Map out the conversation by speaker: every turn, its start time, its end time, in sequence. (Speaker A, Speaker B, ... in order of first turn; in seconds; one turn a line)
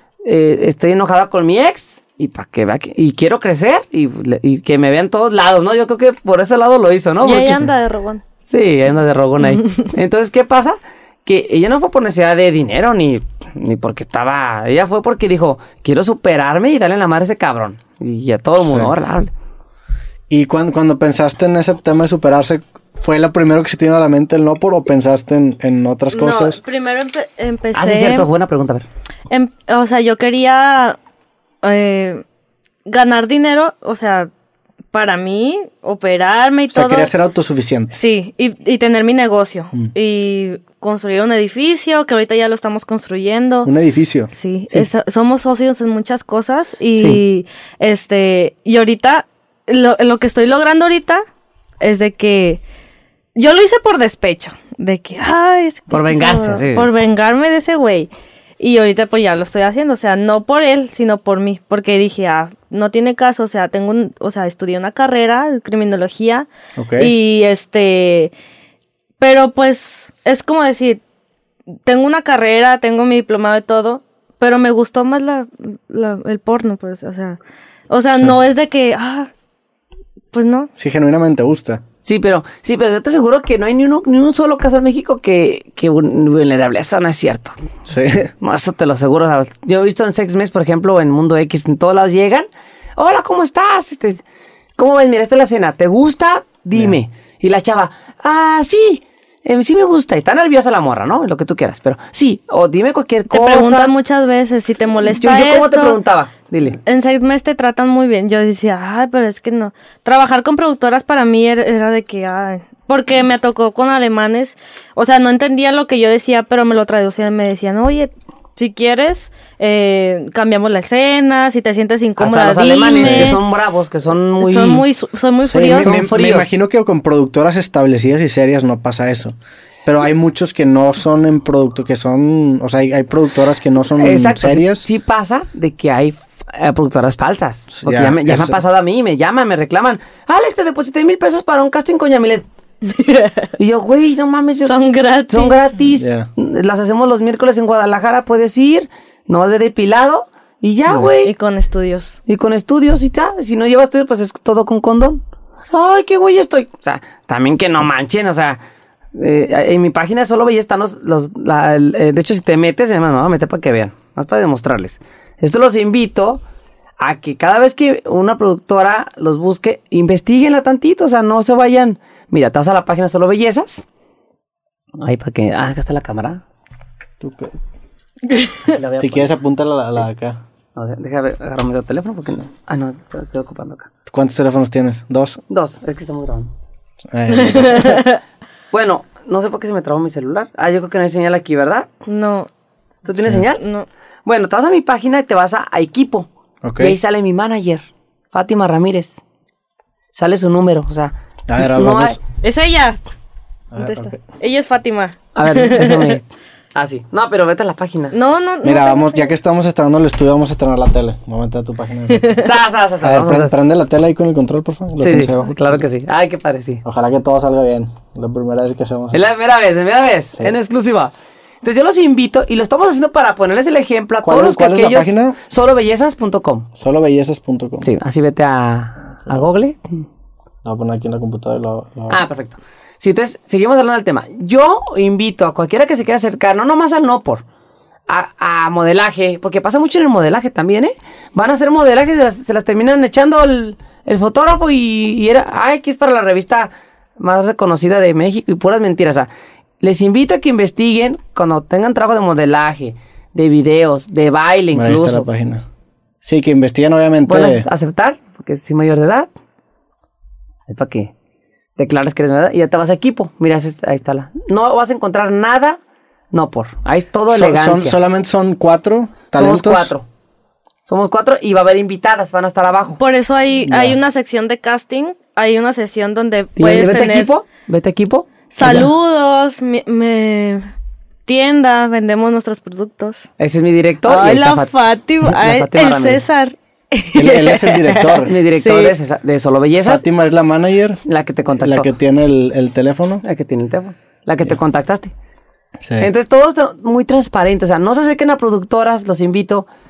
Speaker A: 0.2-7.6
Speaker B: 7.2-8.2
Speaker A: 8.4-19.3
Speaker C: 18.6-18.9
Speaker C: 20.3-26.6
Speaker B: 26.1-28.3
Speaker A: 27.7-28.9
Speaker B: 29.3-31.0
Speaker B: 31.6-32.2
Speaker B: 32.9-34.3
Speaker B: 34.9-37.1
Speaker C: 36.7-37.9
Speaker B: 37.9-43.7
Speaker C: 43.6-44.3
Speaker B: 44.3-51.2
Speaker A: 47.0-47.2
Speaker B: 51.8-52.6
Speaker B: 53.4-68.3
Speaker A: 55.9-56.9
Speaker C: 66.8-67.1
Speaker B: 69.2-71.0
Speaker B: 71.8-77.4
Speaker B: 77.9-79.3
Speaker B: 80.3-80.7
Speaker C: 80.8-81.8
Speaker A: 82.0-87.6
Speaker C: 87.8-88.3
Speaker A: 88.4-94.2
Speaker A: 94.8-103.9
Speaker B: 103.3-106.0
Speaker A: 105.1-106.8
Speaker B: 106.8-123.4
Speaker A: 122.2-124.8
Speaker C: 122.9-123.4
Speaker B: 124.4-126.0
Speaker C: 125.4-134.8
Speaker A: 125.7-126.5
Speaker A: 134.0-142.4
Speaker C: 137.7-138.6
Speaker B: 142.8-143.5
Speaker A: 143.6-144.7
Speaker B: 144.6-145.7
Speaker A: 145.3-151.3
Speaker C: 146.0-146.3
Speaker B: 151.2-152.2
Speaker A: 152.2-158.6
Speaker A: 159.1-166.4
Speaker A: 167.0-173.9
Speaker A: 175.0-176.4
Speaker C: 177.2-177.6
Speaker A: 178.6-179.3
Speaker C: 179.0-180.4
Speaker A: 180.7-183.9
Speaker C: 184.1-185.4
Speaker A: 185.5-186.5
Speaker C: 187.1-188.1
Speaker B: 187.5-188.2
Speaker A: 188.7-191.9
Speaker B: 192.1-192.5
Speaker A: 193.0-193.6
Speaker B: 193.6-193.9
Speaker A: 194.2-199.2
Speaker C: 196.6-196.9
Speaker A: 200.1-202.2
Speaker C: 201.5-202.2
Speaker B: 202.4-203.0
Speaker C: 203.7-204.2
Speaker B: 203.8-206.2
Speaker A: 205.3-208.1
Speaker B: 208.1-209.2
Speaker C: 208.6-212.4
Speaker A: 212.4-213.7
Speaker C: 213.0-215.8
Speaker A: 215.0-216.8
Speaker C: 216.8-219.2
Speaker A: 219.1-226.7
Speaker C: 224.2-225.4
Speaker C: 226.8-227.9
Speaker A: 227.8-229.8
Speaker C: 230.6-232.2
Speaker A: 232.1-237.4
Speaker A: 238.1-249.3
Speaker A: 249.8-255.3
Speaker C: 254.7-255.6
Speaker C: 256.2-257.6
Speaker A: 257.3-259.3
Speaker A: 260.7-261.1
Speaker A: 261.8-265.8
Speaker A: 266.3-268.0
Speaker C: 267.3-269.9
Speaker A: 269.3-270.1
Speaker A: 270.9-273.0
Speaker B: 273.0-277.3
Speaker C: 273.6-274.0
Speaker A: 276.6-278.8
Speaker B: 278.5-280.6
Speaker B: 281.2-283.3
Speaker A: 283.4-284.7
Speaker B: 284.1-288.9
Speaker A: 285.3-286.2
Speaker C: 287.1-288.3
Speaker A: 288.2-290.0
Speaker C: 289.8-291.0
Speaker A: 291.1-291.9
Speaker C: 291.6-293.2
Speaker A: 293.2-295.1
Speaker C: 295.8-296.1
Speaker A: 296.0-299.7